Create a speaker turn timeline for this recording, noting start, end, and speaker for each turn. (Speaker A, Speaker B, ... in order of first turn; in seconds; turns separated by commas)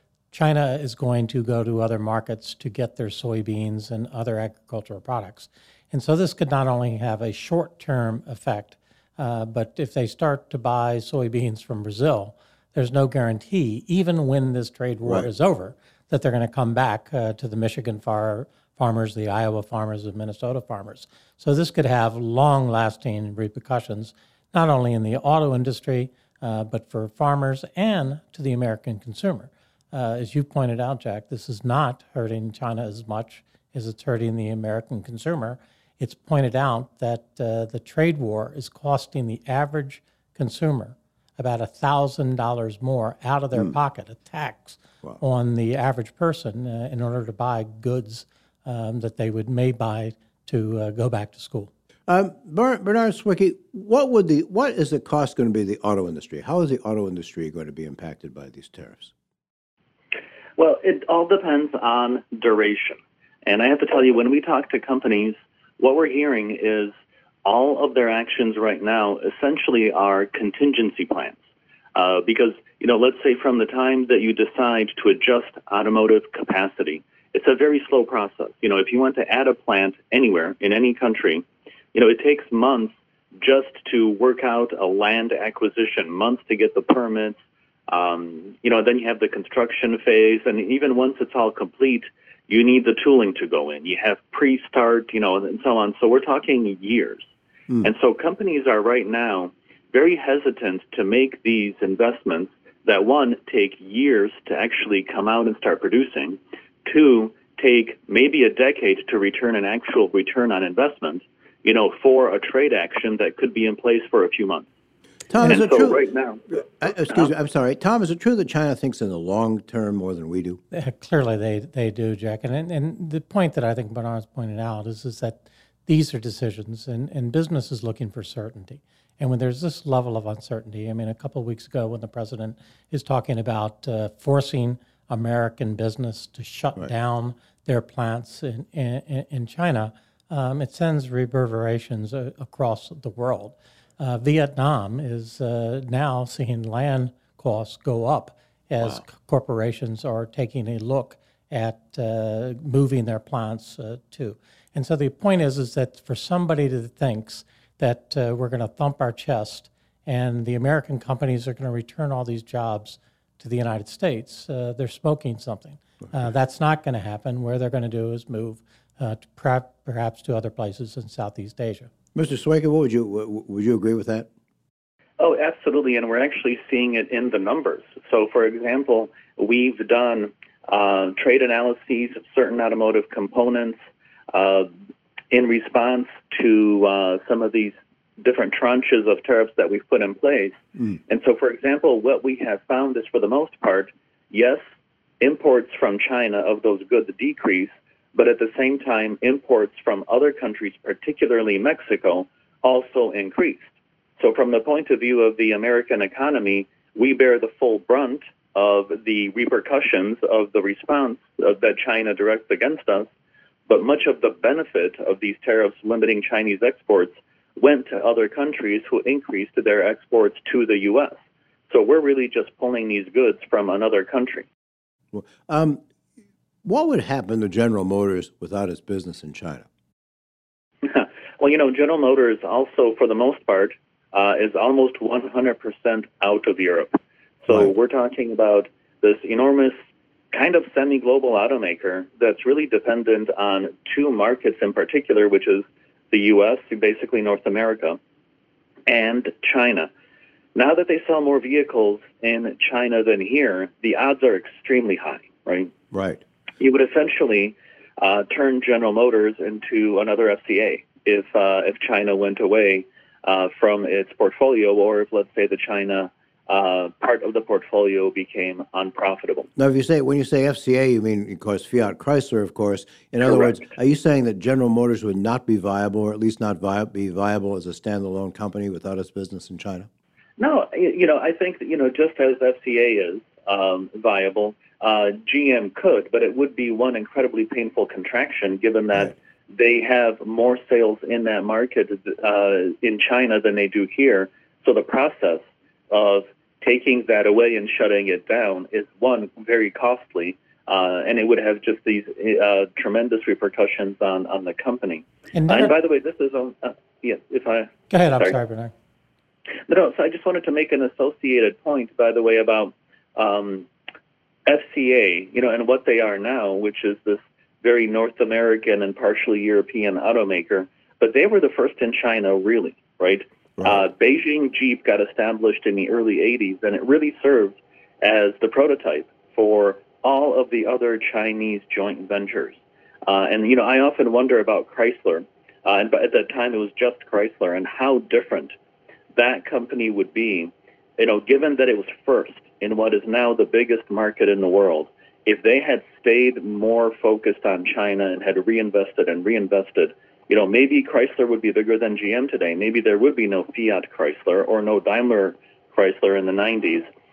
Speaker A: 0.3-51.7, Speaker B: 52.1-59.1, Speaker C: 60.6-66.9, Speaker C: 67.5-71.4, Speaker C: 72.0-87.4, Speaker C: 87.9-97.3, Speaker C: 97.8-114.7, Speaker B: 115.3-120.6, Speaker C: 115.4-117.3, Speaker A: 120.7-171.9, Speaker B: 172.2-174.3, Speaker C: 175.2-183.8, Speaker C: 184.3-184.7, Speaker C: 185.3-194.6, Speaker C: 195.2-213.1, Speaker C: 213.7-221.2, Speaker C: 221.7-224.5, Speaker B: 225.1-225.8, Speaker B: 226.6-229.7, Speaker C: 230.8-239.8, Speaker C: 240.3-248.0, Speaker C: 248.9-249.9, Speaker C: 250.6-255.7, Speaker B: 255.9-256.2, Speaker C: 256.6-269.5, Speaker B: 269.6-279.9, Speaker C: 273.2-273.6, Speaker C: 280.4-308.4, Speaker A: 305.3-305.8, Speaker A: 307.9-308.7, Speaker C: 309.7-313.7, Speaker C: 314.5-338.6, Speaker B: 323.6-323.8, Speaker C: 339.1-356.9